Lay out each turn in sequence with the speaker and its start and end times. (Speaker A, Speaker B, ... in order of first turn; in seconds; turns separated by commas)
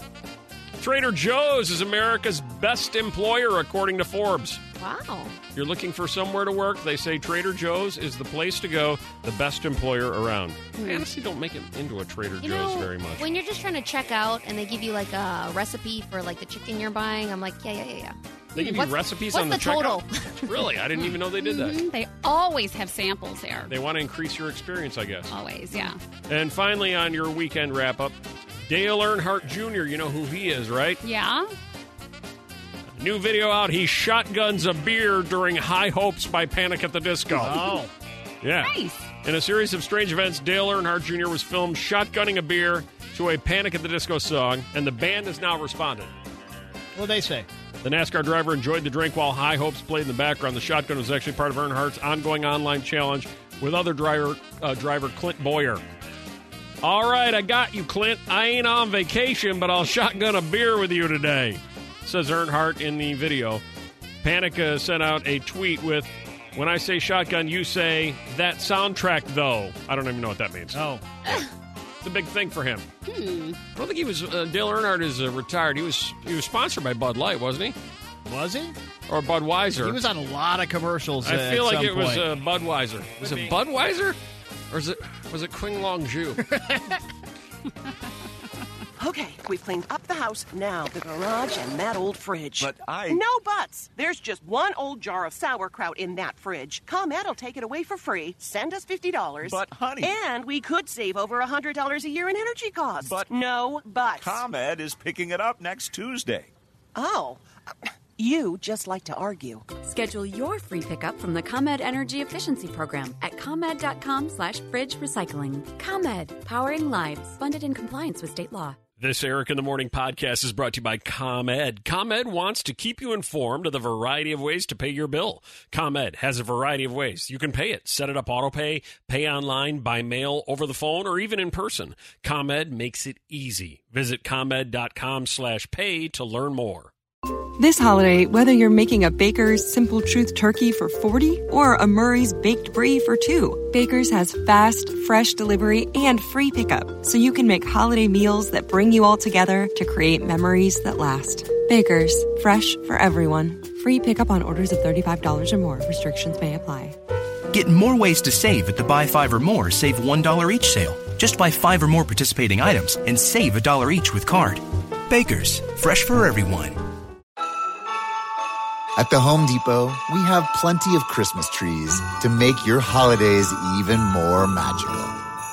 Speaker A: 0.8-4.6, Speaker B: 4.8-5.3, Speaker A: 5.5-13.2, Speaker B: 12.4-20.5, Speaker A: 18.6-21.8, Speaker C: 21.0-23.7, Speaker A: 23.7-25.3, Speaker C: 25.3-26.0, Speaker A: 26.3-28.1, Speaker A: 28.7-31.0, Speaker C: 31.0-31.5, Speaker A: 33.0-37.6, Speaker D: 37.3-37.9, Speaker A: 38.4-46.1, Speaker C: 38.6-39.0, Speaker D: 46.9-47.5, Speaker A: 47.8-55.8, Speaker A: 56.8-63.6, Speaker A: 64.2-71.5, Speaker D: 70.7-71.0, Speaker A: 72.0-72.9, Speaker C: 73.0-73.6, Speaker A: 73.7-77.7, Speaker D: 78.2-78.7, Speaker A: 79.1-80.0, Speaker D: 79.8-82.2, Speaker A: 81.2-84.2, Speaker D: 83.2-83.5, Speaker A: 84.7-86.4, Speaker D: 86.4-87.0, Speaker E: 89.0-104.4, Speaker F: 92.6-93.2, Speaker F: 99.4-100.1, Speaker F: 103.0-103.3, Speaker F: 104.2-106.5, Speaker E: 106.9-107.4, Speaker E: 108.2-109.6, Speaker G: 109.8-118.8, Speaker A: 119.0-136.9, Speaker H: 137.6-156.9, Speaker I: 157.5-166.8, Speaker J: 168.9-175.2